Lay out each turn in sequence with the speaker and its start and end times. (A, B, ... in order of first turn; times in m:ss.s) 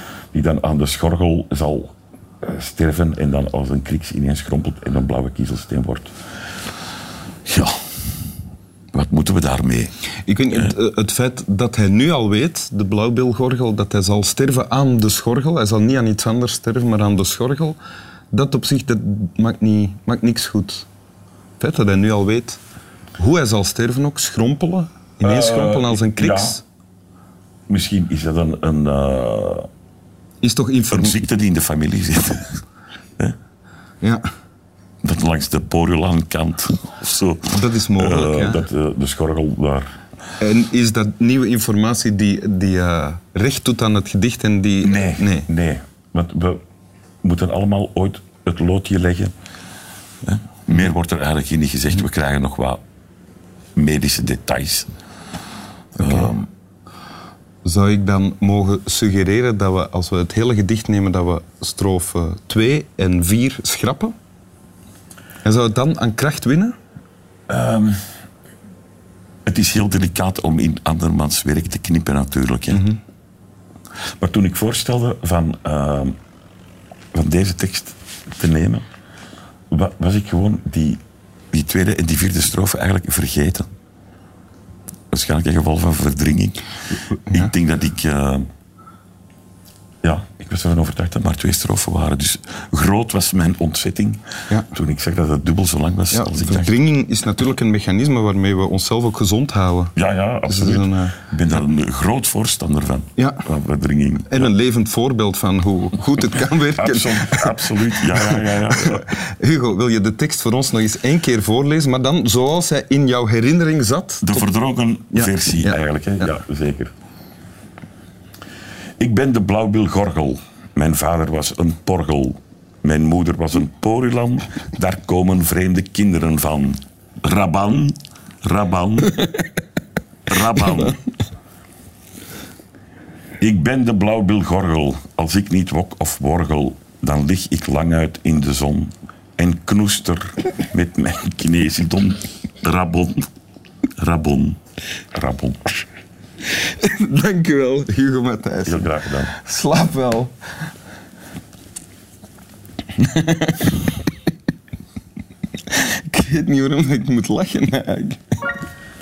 0:00.3-0:06.1 A
0:07.5-0:07.7 A
0:08.9-0:09.9 A
0:10.3-0:17.8 B
0:18.3-0:20.9 B
0:21.6-0:22.6 B
0:23.2-0:26.6 B
0:25.2-0:26.6 A
0:27.7-0:29.7 A
0:30.4-0:31.2 B
0:30.9-0:32.6 A
0:35.0-0:39.9 A
0:37.5-0:38.6 B
0:40.4-0:45.5 B
0:44.8-0:46.6 A
0:47.2-0:49.3 A
0:50.2-0:52.8 A
0:53.8-0:54.9 A
0:56.0-0:56.5 A
0:56.0-0:56.4 B
0:57.6-1:04.1 B
1:05.4-1:06.8 B
1:07.5-1:08.0 A
1:09.5-1:12.9 A
1:12.7-1:13.0 B
1:14.2-1:16.2 A
1:17.1-1:18.8 A
1:19.7-1:21.0 A
1:21.5-1:23.7 A
1:25.1-1:26.6 A
1:27.3-1:28.5 A
1:30.0-1:36.7 A
1:36.1-1:39.9 B
1:40.0-1:44.5 A
1:40.4-1:41.2 B
1:43.2-1:43.4 B
1:44.2-1:54.5 B
1:46.8-1:49.1 A
1:54.2-1:56.9 A
1:55.1-1:55.8 B
1:59.0-2:09.3 A
2:10.3-2:11.0 A
2:10.5-2:11.0 B
2:13.4-2:23.3 A
2:24.0-2:24.6 A
2:25.1-2:25.8 A
2:26.5-2:30.3 B
2:28.7-2:29.3 A
2:33.0-2:33.9 B
2:35.7-2:38.2 B